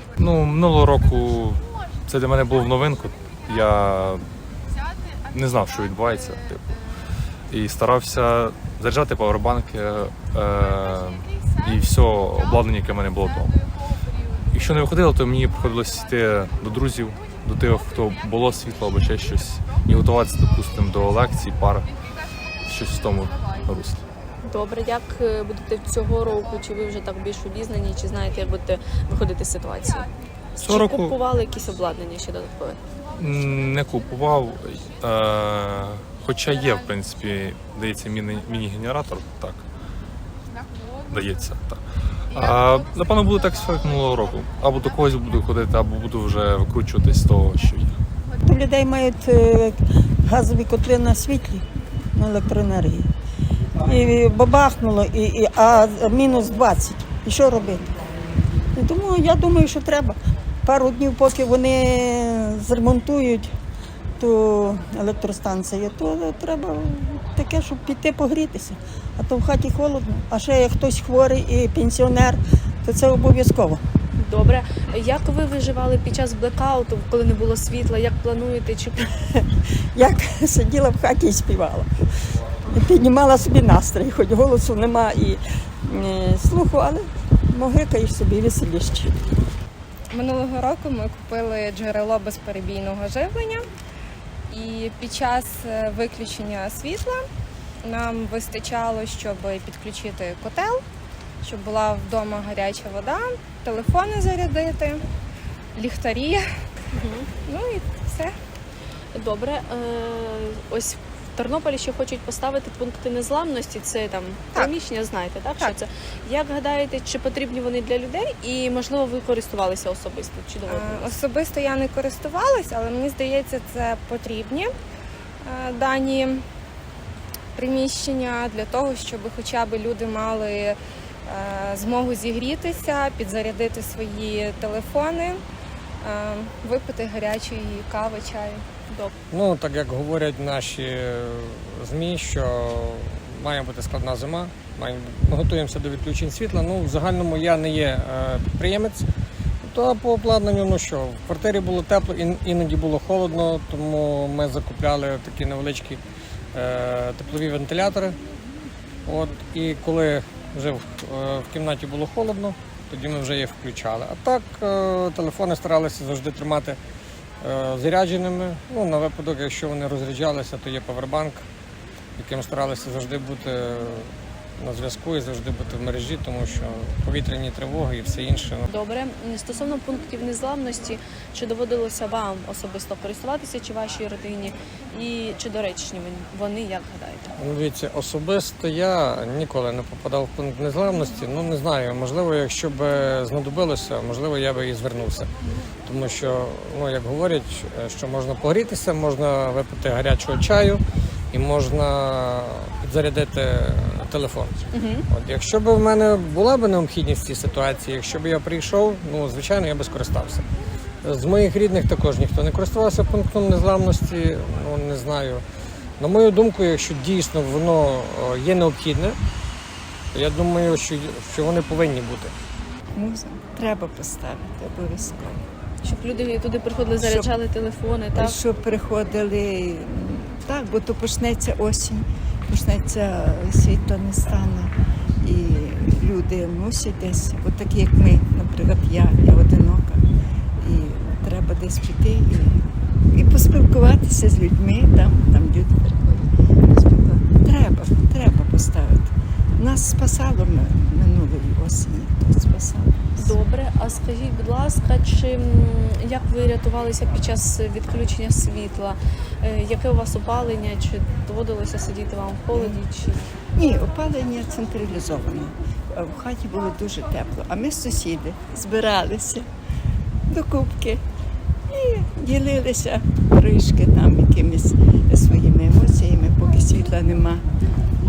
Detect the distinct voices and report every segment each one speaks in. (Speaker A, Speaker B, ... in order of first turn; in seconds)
Speaker A: 0.2-4.2, 5.3-6.7, 7.5-13.6, 14.5-21.9, 22.6-24.0, 30.6-31.2, 33.1-39.6, 41.1-41.8, 42.3-48.0
Speaker B: 24.5-32.8, 74.2-79.1, 106.9-107.3, 109.2-121.2, 178.7-187.3, 204.7-205.0, 225.8-228.4, 253.2-263.3
Speaker C: 48.4-53.1, 53.8-57.9, 58.8-63.5, 64.2-73.8, 80.0-81.9, 82.7-89.2
Speaker D: 90.1-93.7, 94.5-97.3, 97.8-100.8, 101.4-105.1, 105.8-106.6, 107.5-108.3, 120.7-124.7, 125.4-126.5, 127.5-135.4, 136.0-138.6
Speaker E: 139.3-149.1, 149.6-156.0, 156.5-158.2, 159.1-166.8, 167.4-171.4, 172.2-178.7, 187.4-195.3, 195.9-210.4, 211.0-215.4, 216.0-219.2, 220.1-222.3
Speaker F: 223.0-225.4, 227.0-227.3, 228.1-234.7, 235.2-240.0, 240.6-242.6, 243.1-253.4, 262.5-262.8, 263.6-269.5, 270.3-271.0, 271.7-277.4